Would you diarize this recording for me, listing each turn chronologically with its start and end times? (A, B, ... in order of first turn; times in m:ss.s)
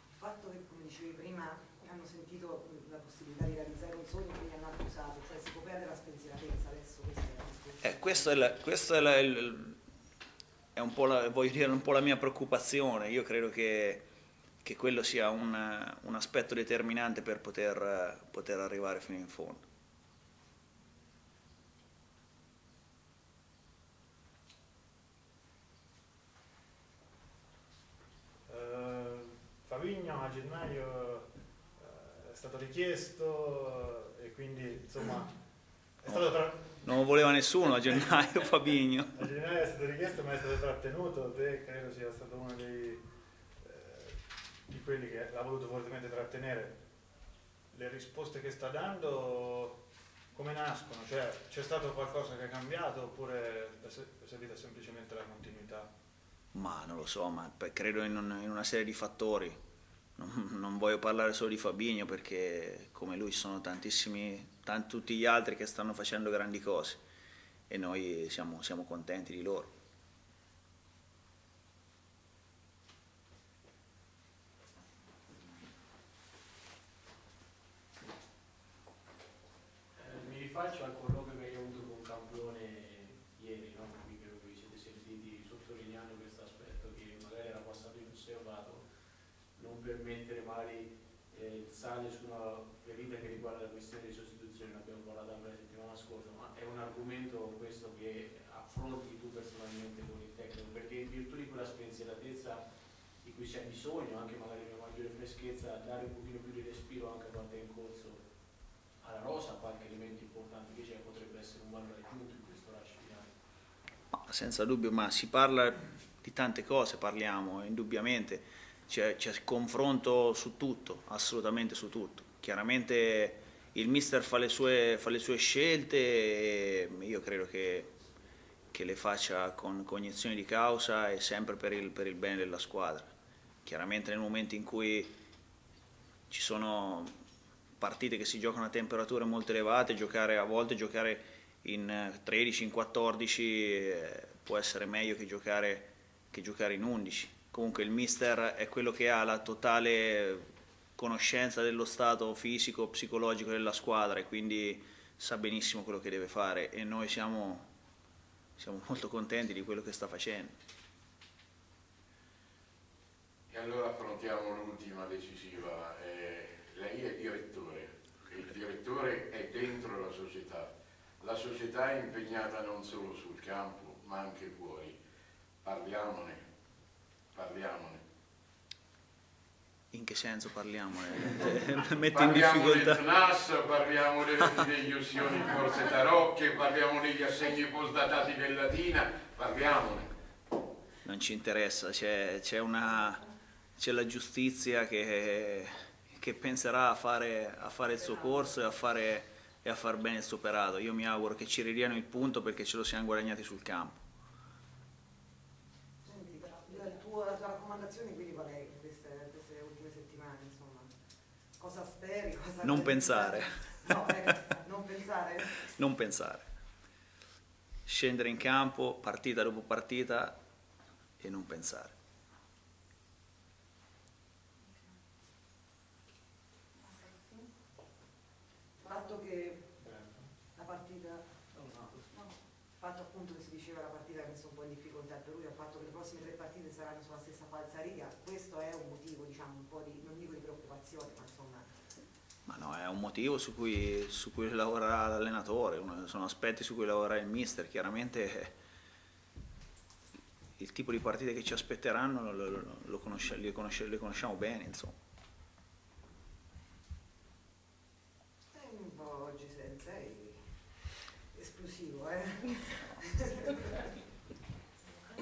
0:00.1-0:08.5 A
0:07.8-0:09.8 B
0:10.8-0:14.0 B
0:14.6-0:19.6 B
0:28.5-0:31.2 C
0:31.8-0:35.3 C
0:36.0-0:36.8 C
0:36.8-0:39.2 B
0:39.2-0:43.0 C
0:43.6-0:46.8 C
0:47.7-0:49.8 C
0:50.3-0:55.9 C
0:56.5-0:59.6 B
1:00.2-1:07.0 B
1:07.7-1:09.7 B
1:19.9-1:28.8 D
1:29.6-1:42.6 D
1:43.2-1:48.2 D
1:49.0-1:53.3 D
1:54.1-2:07.9 B
2:08.7-2:13.1 B
2:13.6-2:15.2 B
2:16.3-2:17.1 B
2:17.8-2:30.4 B
2:31.0-2:37.7 B
2:38.6-2:40.6 B
2:43.5-2:55.0 E
2:55.6-2:56.4 E
2:57.3-2:58.0 E
2:59.9-3:03.0 B
3:02.1-3:10.1 E
3:11.0-3:24.0 B
3:26.0-3:30.9 A
3:31.6-3:35.7 A
3:32.6-3:34.1 B
3:35.7-3:36.4 B
3:37.9-3:40.4 B
3:41.2-3:41.9 B
3:48.8-3:49.7 A
3:49.8-3:50.3 C
3:50.6-3:51.5 A
3:52.1-4:01.7 A
4:02.5-4:08.6 B
4:10.6-4:15.0 B
4:18.5-4:20.4 A
4:21.3-4:23.9 A